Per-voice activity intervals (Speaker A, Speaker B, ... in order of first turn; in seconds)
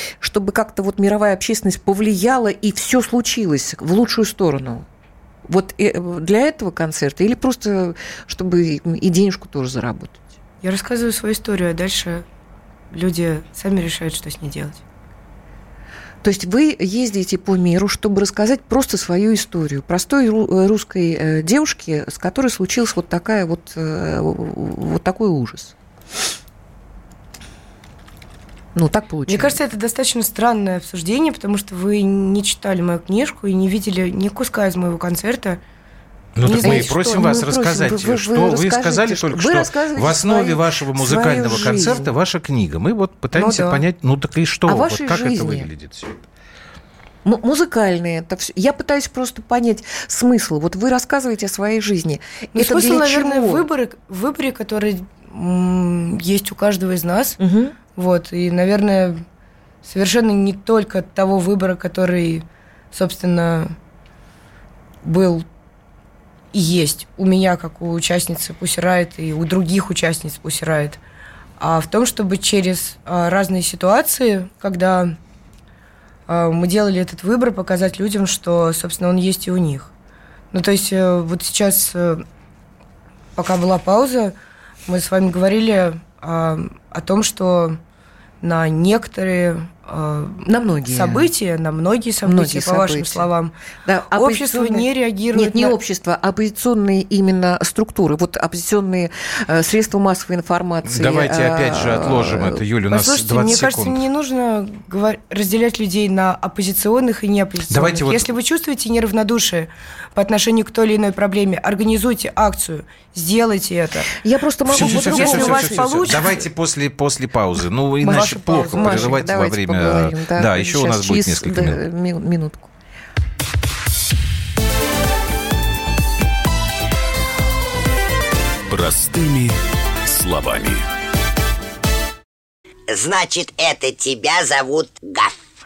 Speaker A: 0.2-4.8, 5.5-10.2, 16.2-25.7, 28.7-29.6, 36.4-42.1, 44.6-45.7, 47.2-53.6, 57.4-57.8, 90.5-91.3, 92.2-93.3, 93.8-102.6, 114.2-116.4, 118.0-122.7
Speaker B: 10.6-12.2, 12.9-14.8, 29.3-35.6, 36.6-36.8, 43.3-43.8, 52.5-57.4, 57.9-59.2, 59.8-63.7, 65.0-65.5, 66.5-71.0, 71.6-75.2, 76.3-79.9, 80.5-82.2, 83.4-84.3, 84.9-87.8, 88.4-93.5, 94.1-95.8, 102.9-114.1, 114.7-116.3, 118.0-119.2
Speaker C: 36.4-46.2, 100.8-104.0, 107.7-108.3, 114.7-121.8
Speaker D: 128.7-130.8
Speaker E: 132.9-135.5